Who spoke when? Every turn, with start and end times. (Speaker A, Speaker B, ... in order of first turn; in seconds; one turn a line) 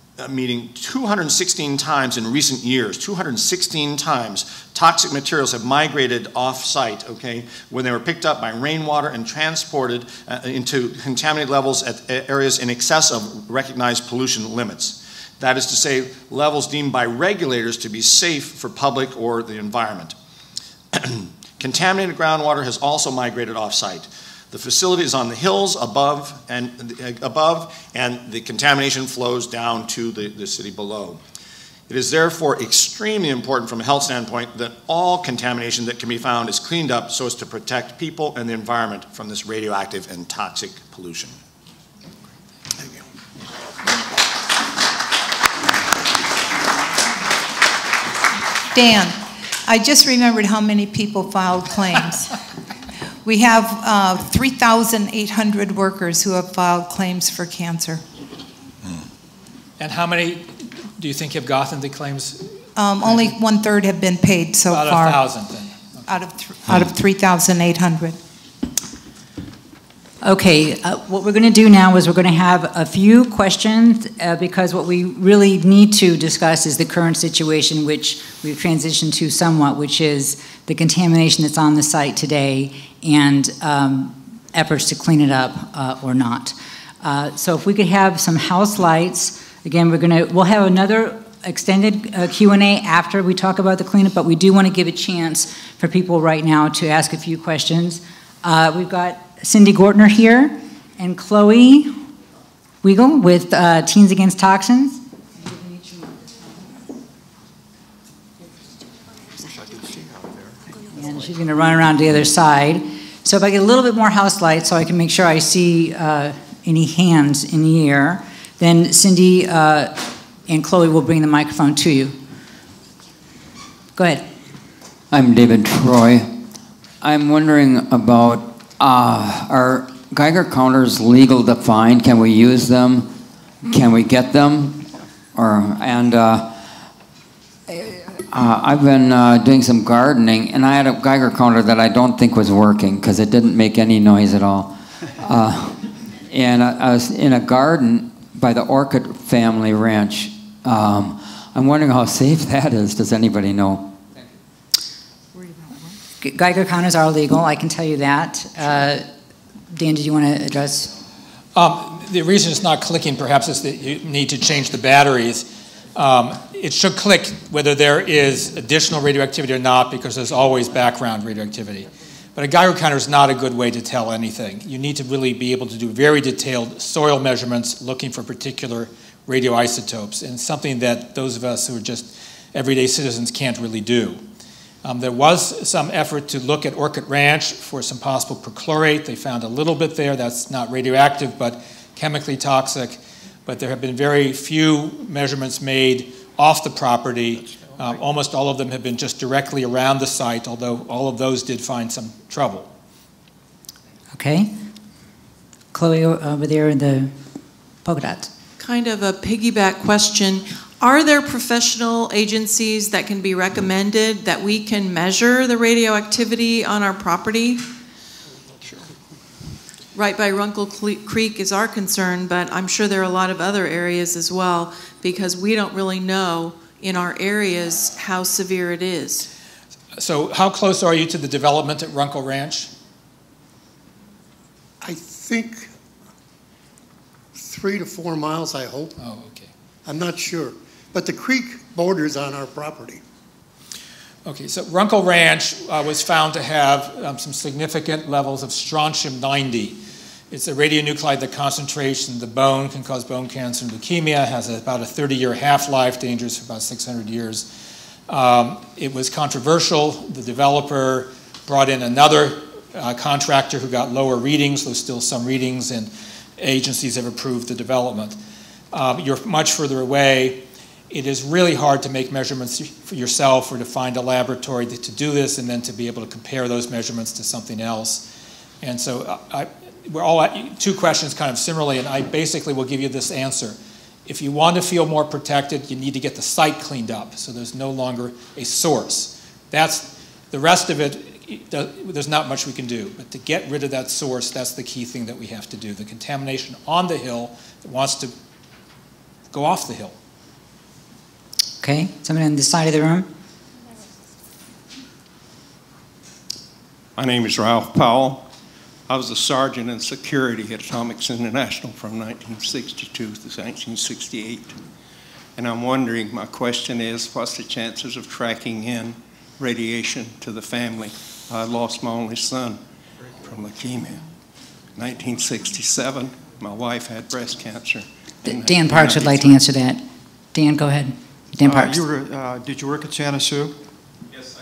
Speaker A: 0.2-20.1
Speaker A: 20.9-31.2
Speaker A: 31.9-41.3
Speaker B: 48.7-52.4
Speaker B: 53.2-58.0
Speaker C: 59.8-62.6
Speaker B: 62.8-65.2
Speaker C: 64.7-66.1
Speaker B: 66.1-68.2
Speaker D: 70.2-102.0
Speaker D: 102.8-106.4
Speaker E: 109.4-110.6
Speaker D: 110.8-122.2
Speaker D: 124.0-124.3
Speaker F: 125.1-126.4
Speaker F: 127.0-136.7
Speaker F: 138.3-154.0
Speaker D: 156.2-159.1
Speaker D: 159.7-160.9
Speaker C: 161.6-184.2
Speaker C: 184.8-202.7
Speaker D: 204.1-204.5
Speaker D: 205.7-207.2
Speaker D: 207.8-208.3
Speaker G: 208.6-217.7
Speaker G: 219.9-229.3
Speaker C: 230.0-232.7
Speaker H: 234.8-235.7
Speaker H: 237.3-239.0
Speaker C: 239.0-239.5
Speaker H: 239.8-243.0
Speaker C: 244.2-257.5
Speaker C: 258.1-268.2
Speaker C: 268.7-278.1
Speaker C: 278.6-298.1
Speaker C: 299.3-300.0
Speaker D: 301.6-303.1
Speaker I: 307.0-308.3
Speaker I: 308.9-314.6
Speaker I: 315.4-324.1
Speaker I: 324.7-329.4
Speaker D: 328.3-331.8
Speaker E: 331.4-333.6